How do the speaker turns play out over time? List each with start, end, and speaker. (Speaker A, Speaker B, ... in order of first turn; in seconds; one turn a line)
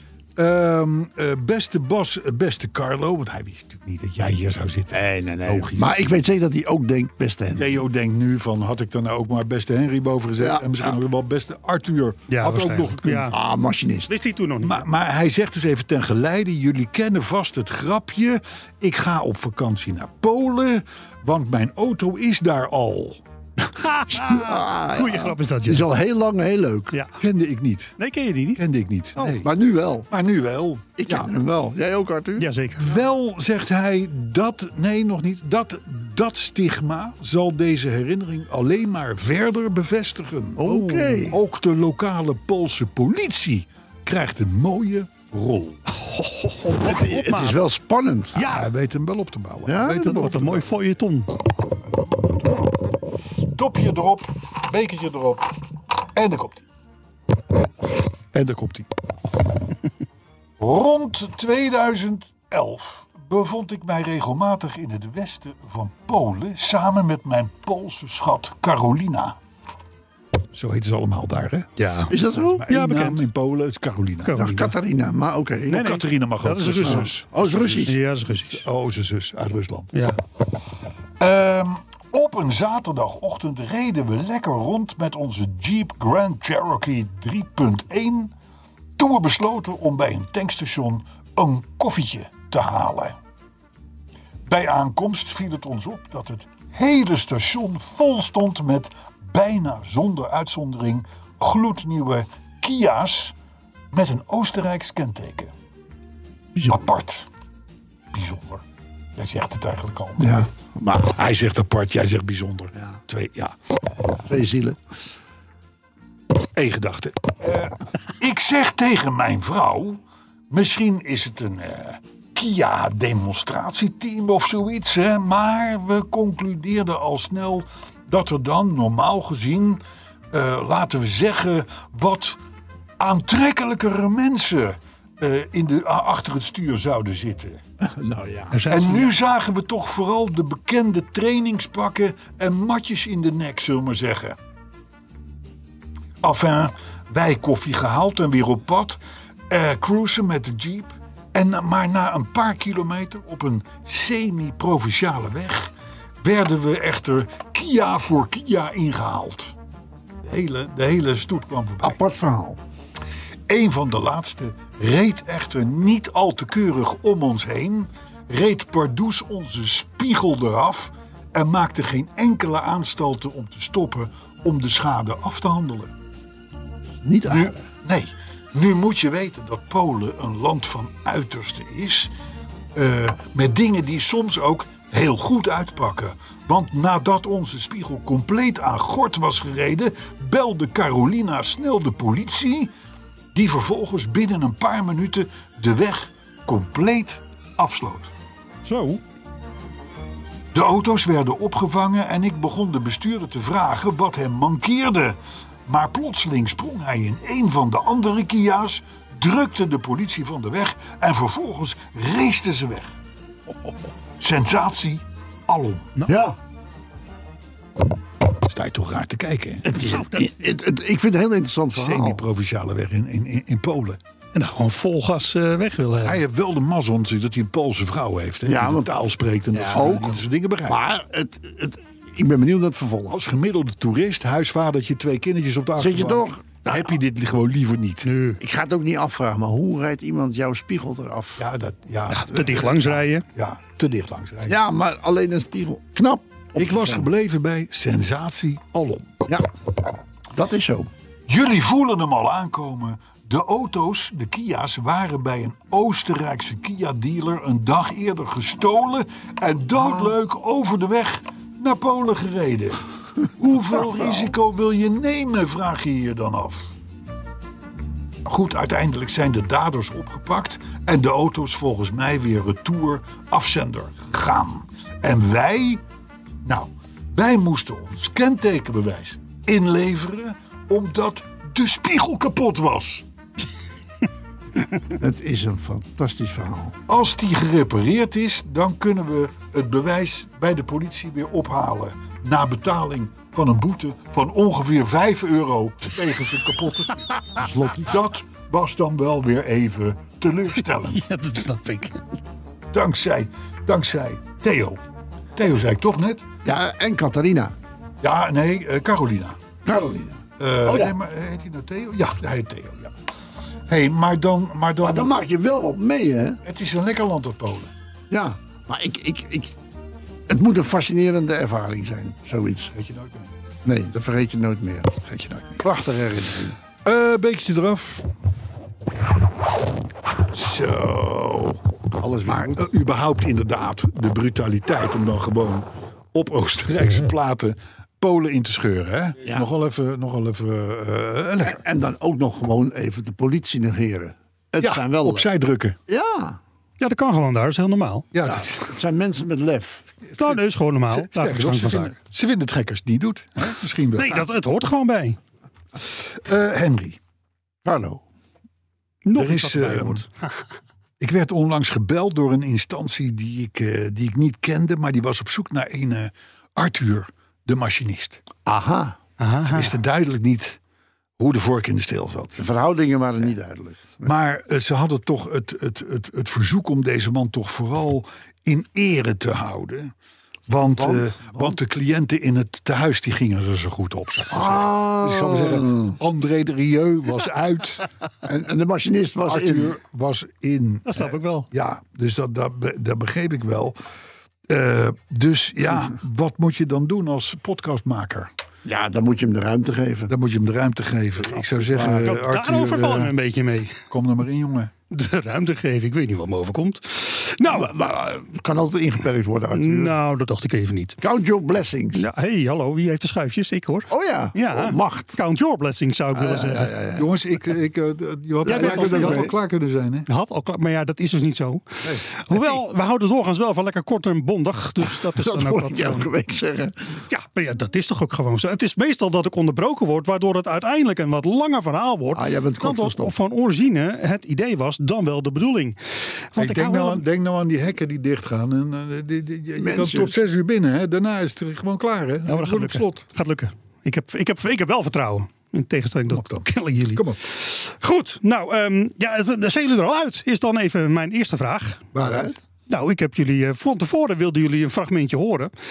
Speaker A: 0.4-5.9
Speaker B: 4.9-7.8
Speaker A: 7.6-13.3
Speaker B: 10.4-10.9
Speaker C: 12.3-13.3
Speaker B: 13.3-14.1
Speaker C: 14.1-14.8
Speaker A: 14.6-23.2
Speaker C: 23.8-25.9
Speaker B: 24.1-27.0
Speaker C: 26.9-27.2
Speaker A: 27.2-28.0
Speaker C: 28.0-28.6
Speaker A: 28.6-29.5
Speaker B: 29.4-30.1
Speaker A: 30.1-31.3
Speaker B: 31.0-32.5
Speaker C: 32.4-33.0
Speaker A: 32.8-45.9
Speaker C: 40.6-41.3
Speaker B: 40.6-41.4
Speaker C: 45.9-47.7
Speaker B: 46.8-48.4
Speaker C: 48.4-48.7
Speaker A: 48.4-50.7
Speaker B: 49.7-50.5
Speaker C: 50.0-51.3
Speaker A: 52.1-52.7
Speaker A: 53.4-55.5
Speaker A: 56.1-56.6
Speaker A: 58.3-58.9
Speaker A: 60.6-69.4
Speaker A: 70.5-71.7
Speaker C: 71.8-72.1
Speaker B: 72.1-72.7
Speaker A: 72.3-74.4
Speaker C: 72.7-73.2
Speaker C: 74.2-74.8
Speaker B: 74.3-75.8
Speaker C: 75.7-78.7
Speaker A: 75.7-77.8
Speaker B: 76.8-78.0
Speaker A: 78.5-80.0
Speaker A: 81.2-88.3
Speaker A: 89.0-93.2
Speaker A: 94.5-103.3
Speaker A: 103.9-105.5
Speaker B: 106.5-106.8
Speaker A: 106.7-107.3
Speaker A: 108.1-108.6
Speaker A: 109.2-110.5
Speaker B: 110.2-111.2
Speaker A: 111.1-113.6
Speaker B: 114.2-114.8
Speaker A: 116.5-120.0
Speaker A: 120.5-129.8
Speaker A: 130.3-132.4
Speaker A: 133.0-137.6
Speaker B: 137.8-138.6
Speaker C: 138.5-139.2
Speaker A: 138.7-144.4
Speaker A: 146.2-149.0
Speaker A: 149.5-159.5
Speaker A: 160.2-162.0
Speaker B: 161.8-162.6
Speaker A: 163.5-175.9
Speaker B: 177.0-177.6
Speaker A: 177.3-182.1
Speaker A: 182.8-192.7
Speaker A: 193.3-198.1
Speaker C: 198.6-199.0
Speaker A: 200.5-212.9
Speaker A: 214.2-215.9
Speaker B: 216.1-216.4
Speaker A: 218.4-219.7
Speaker B: 219.6-222.2
Speaker C: 219.8-220.3
Speaker A: 221.7-224.0
Speaker C: 224.3-226.2
Speaker A: 226.0-230.8
Speaker B: 228.5-228.9
Speaker C: 229.6-230.0
Speaker B: 229.6-233.2
Speaker A: 233.1-238.1
Speaker B: 235.8-236.8
Speaker C: 238.0-238.4
Speaker B: 238.4-241.5
Speaker A: 241.4-244.6
Speaker C: 242.1-243.2
Speaker B: 244.4-247.1
Speaker A: 246.6-249.2
Speaker B: 250.3-250.9
Speaker A: 251.3-266.7
Speaker A: 268.2-275.8
Speaker A: 276.4-283.1
Speaker B: 285.0-286.8
Speaker A: 286.9-301.0
Speaker C: 300.7-302.0
Speaker A: 302.7-304.8
Speaker A: 305.4-306.2
Speaker B: 306.4-307.5
Speaker A: 308.0-309.4
Speaker B: 309.6-310.9
Speaker A: 310.4-312.9
Speaker A: 313.7-315.2
Speaker B: 314.8-316.4
Speaker A: 316.4-317.7
Speaker B: 318.1-319.5
Speaker B: 320.3-322.7
Speaker A: 322.7-323.3
Speaker B: 323.6-324.9
Speaker A: 325.0-325.7
Speaker B: 325.6-326.6
Speaker A: 326.8-328.1
Speaker A: 330.3-331.6
Speaker B: 332.0-332.7
Speaker A: 332.3-341.6
Speaker B: 339.2-339.5
Speaker B: 341.4-345.3
Speaker A: 344.6-345.8
Speaker B: 345.9-346.4
Speaker C: 346.8-348.1
Speaker A: 348.1-348.7
Speaker B: 348.2-349.9
Speaker A: 350.1-354.3
Speaker C: 350.2-351.9
Speaker C: 354.0-355.2
Speaker A: 355.8-357.0
Speaker B: 357.6-358.0
Speaker C: 359.1-360.1
Speaker A: 359.1-360.0
Speaker A: 361.0-368.2
Speaker B: 368.5-369.0
Speaker C: 369.2-369.8
Speaker A: 369.4-370.6
Speaker A: 371.2-372.4
Speaker B: 372.4-374.1
Speaker A: 374.0-379.9
Speaker A: 380.5-387.9
Speaker B: 380.8-381.6
Speaker B: 384.3-386.0
Speaker B: 388.2-389.8
Speaker A: 389.3-393.8
Speaker C: 390.9-391.5
Speaker A: 394.5-398.3
Speaker B: 398.6-400.1
Speaker A: 400.1-403.1
Speaker B: 401.2-402.2
Speaker C: 402.0-403.8
Speaker A: 403.9-404.7
Speaker C: 404.9-407.8
Speaker B: 407.4-409.9
Speaker C: 409.5-411.0
Speaker B: 411.0-412.0
Speaker C: 411.9-416.7
Speaker B: 413.9-415.2
Speaker B: 416.1-417.2
Speaker A: 417.0-420.1
Speaker C: 418.5-419.3
Speaker B: 418.5-419.3
Speaker C: 420.1-426.1
Speaker B: 425.1-427.0
Speaker C: 427.1-435.8
Speaker B: 432.1-433.1
Speaker C: 436.3-437.0
Speaker A: 436.4-443.1
Speaker B: 439.6-440.1
Speaker C: 442.3-451.9
Speaker A: 446.1-447.2
Speaker A: 451.9-452.3
Speaker B: 451.9-452.4
Speaker C: 452.7-455.5